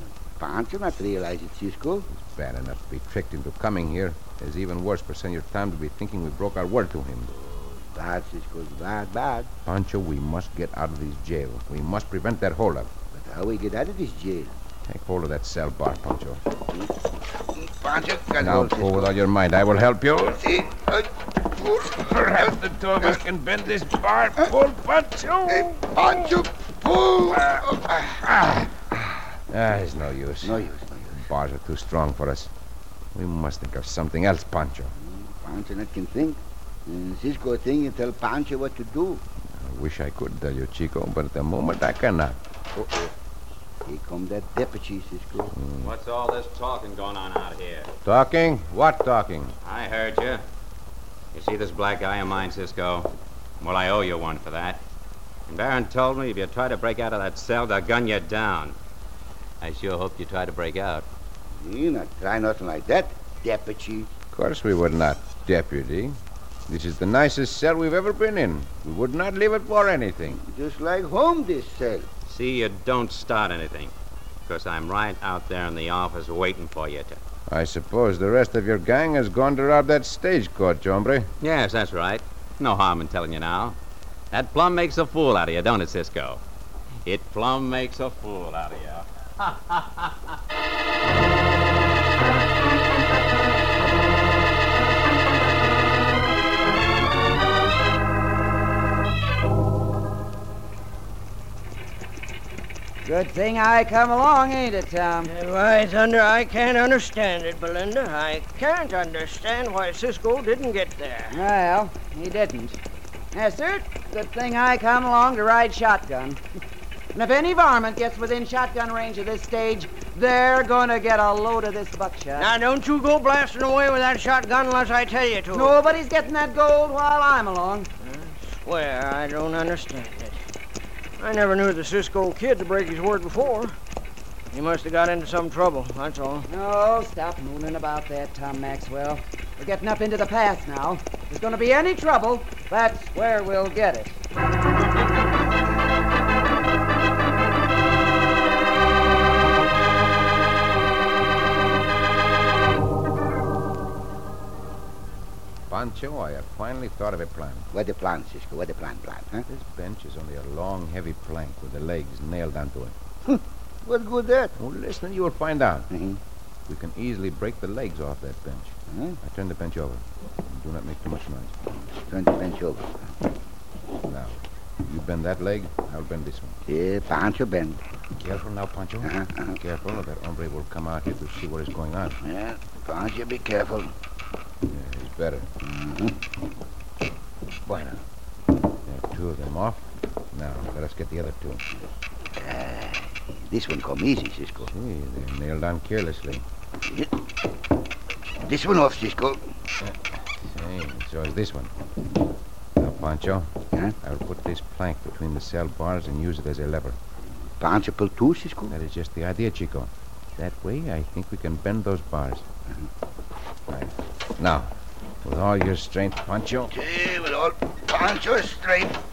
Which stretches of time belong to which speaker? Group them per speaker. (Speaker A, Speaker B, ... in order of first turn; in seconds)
Speaker A: 0.4-2.1, 7.4-9.5, 13.1-14.5, 17.6-19.1, 20.4-21.1, 25.5-28.1, 30.4-31.2, 35.0-39.2, 43.9-45.5, 61.6-64.1, 70.3-72.1, 157.7-159.4, 163.3-164.5, 165.9-166.2, 168.9-169.2, 171.8-173.0, 176.7-177.8, 179.0-179.6, 182.2-183.9, 185.6-186.2, 192.4-194.7, 198.4-199.4, 207.6-208.7, 216.7-219.0
Speaker B: 2.1-7.3, 9.7-12.9, 14.9-16.4, 18.4-20.5, 21.8-26.3, 28.3-28.6, 29.5-30.6, 31.1-32.5, 33.1-34.9, 39.5-42.4, 45.5-45.9, 48.0-49.5, 64.3-66.2, 66.7-70.4, 77.5-81.3, 155.7-157.7, 159.5-162.9, 164.6-165.9, 166.7-171.6, 174.1-176.6, 178.2-182.2, 184.7-185.5, 187.7-188.0, 188.9-191.6, 194.7-196.4, 199.8-201.7, 202.8-207.0, 208.7-212.4, 213.7-214.7, 215.2-216.7
Speaker C: 45.8-47.9, 49.6-50.5, 51.3-54.8, 55.5-58.8, 59.6-61.1, 72.3-73.9, 74.5-77.2, 81.4-83.8, 84.3-86.4, 87.0-90.1
Speaker D: 103.0-105.3, 111.3-112.8, 113.3-116.4, 117.1-122.5, 125.5-127.9, 136.5-144.2
Speaker E: 105.2-111.4, 122.4-125.8, 128.0-130.4, 131.2-133.8, 134.5-136.5